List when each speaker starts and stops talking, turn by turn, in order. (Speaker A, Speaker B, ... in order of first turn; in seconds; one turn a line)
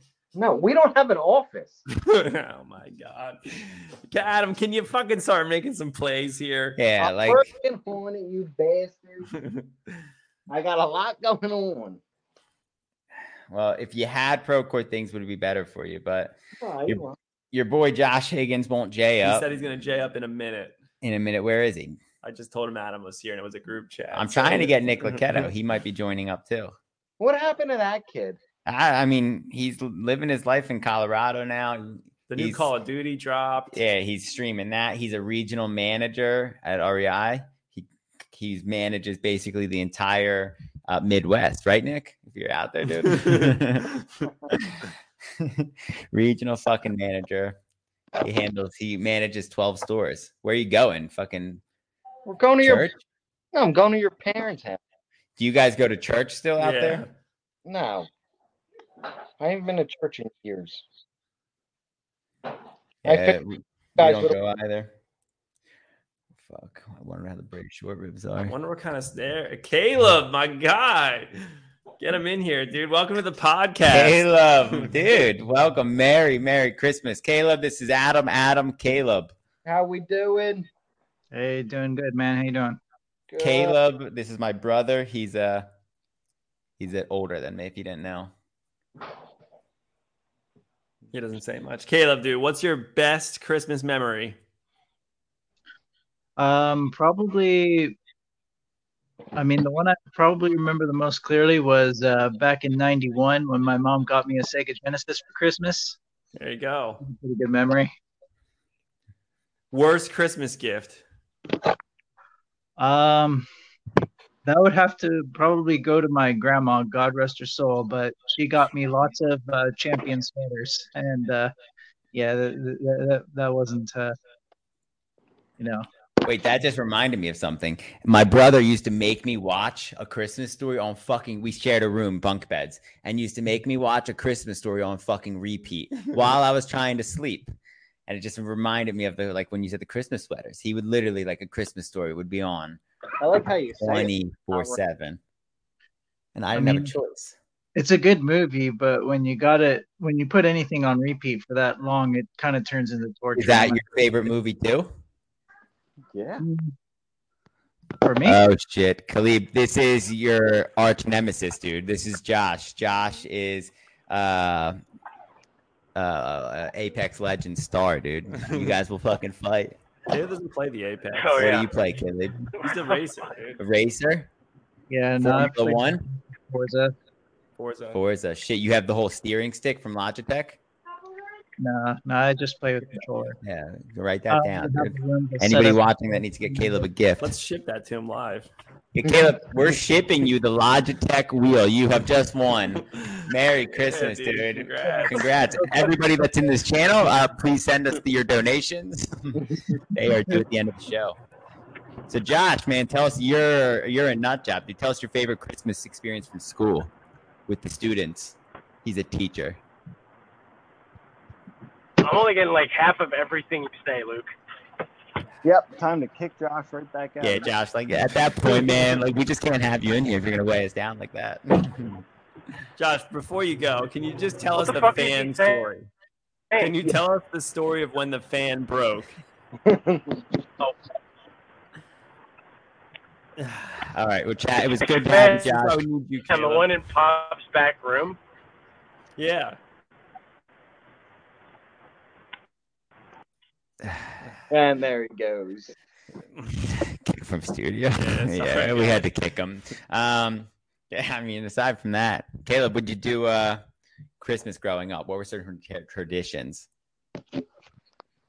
Speaker A: 0.3-1.8
Speaker B: 1.9-6.8
Speaker C: 6.8-7.5
Speaker A: 7.0-9.3
Speaker B: 9.3-9.7
Speaker A: 10.5-12.0
Speaker C: 13.5-16.4
Speaker A: 16.6-17.2
Speaker C: 16.9-19.5
Speaker B: 19.2-20.8
Speaker C: 21.0-22.0
Speaker B: 22.2-25.5
Speaker C: 24.1-26.7
Speaker A: 27.2-28.4
Speaker C: 28.7-32.7
Speaker B: 32.3-33.8
Speaker C: 33.7-43.9
Speaker B: 43.1-43.5
Speaker C: 44.5-44.9
Speaker C: 45.4-47.6
Speaker C: 48.2-51.6
Speaker A: 52.3-52.9
Speaker C: 52.6-53.0
Speaker A: 53.5-54.8
Speaker C: 55.4-57.0
Speaker B: 56.6-57.1
Speaker A: 57.7-58.1
Speaker A: 59.4-60.8
Speaker C: 63.0-64.9
Speaker A: 63.1-63.4
Speaker A: 64.0-64.3
Speaker C: 66.5-68.5
Speaker B: 68.5-71.4
Speaker B: 72.0-74.3
Speaker C: 73.9-79.3
Speaker A: 79.7-80.7
Speaker D: 81.3-82.8
Speaker A: 83.3-83.8
Speaker C: 83.4-85.7
Speaker C: 86.8-88.3
Speaker B: 91.1-94.4
Speaker D: 96.4-98.0
Speaker D: 99.3-106.0
Speaker B: 106.3-107.0
Speaker D: 107.0-107.9
Speaker B: 109.7-111.0
Speaker D: 112.8-113.5
Speaker D: 114.4-121.5
Speaker D: 122.1-124.2
Speaker D: 125.6-125.9
Speaker C: 126.2-137.5
Speaker C: 138.1-142.8
Speaker A: 143.2-144.8
Speaker C: 143.8-145.2
Speaker C: 146.3-147.4
Speaker D: 146.5-146.9
Speaker D: 147.7-153.9
Speaker C: 153.4-154.9
Speaker A: 156.1-156.4
Speaker D: 156.4-156.7
Speaker D: 158.0-158.4
Speaker C: 158.2-164.8
Speaker C: 165.9-169.8
Speaker B: 168.4-168.8
Speaker B: 170.1-171.7
Speaker E: 171.2-171.7
Speaker C: 171.4-172.5
Speaker B: 172.6-173.6
Speaker C: 173.6-174.3
Speaker D: 174.9-176.9
Speaker C: 175.2-176.0
Speaker B: 177.6-178.0
Speaker C: 177.9-180.6
Speaker D: 181.6-183.4
Speaker C: 183.4-187.3
Speaker D: 184.3-186.9
Speaker B: 187.2-188.5
Speaker C: 188.9-201.2
Speaker B: 192.9-195.3
Speaker D: 194.9-195.9
Speaker C: 202.1-206.9
Speaker C: 207.5-209.6
Speaker E: 212.0-214.3
Speaker A: 215.4-217.5
Speaker C: 217.2-222.0
Speaker B: 222.8-225.9
Speaker E: 224.6-225.7
Speaker E: 226.5-226.8
Speaker B: 226.6-229.2
Speaker A: 229.7-230.2
Speaker C: 233.8-235.8
Speaker E: 234.8-235.4
Speaker B: 235.2-236.7
Speaker E: 236.3-238.2
Speaker B: 239.2-239.6
Speaker A: 244.5-245.7
Speaker C: 246.7-253.6
Speaker B: 248.0-249.1
Speaker C: 254.2-256.7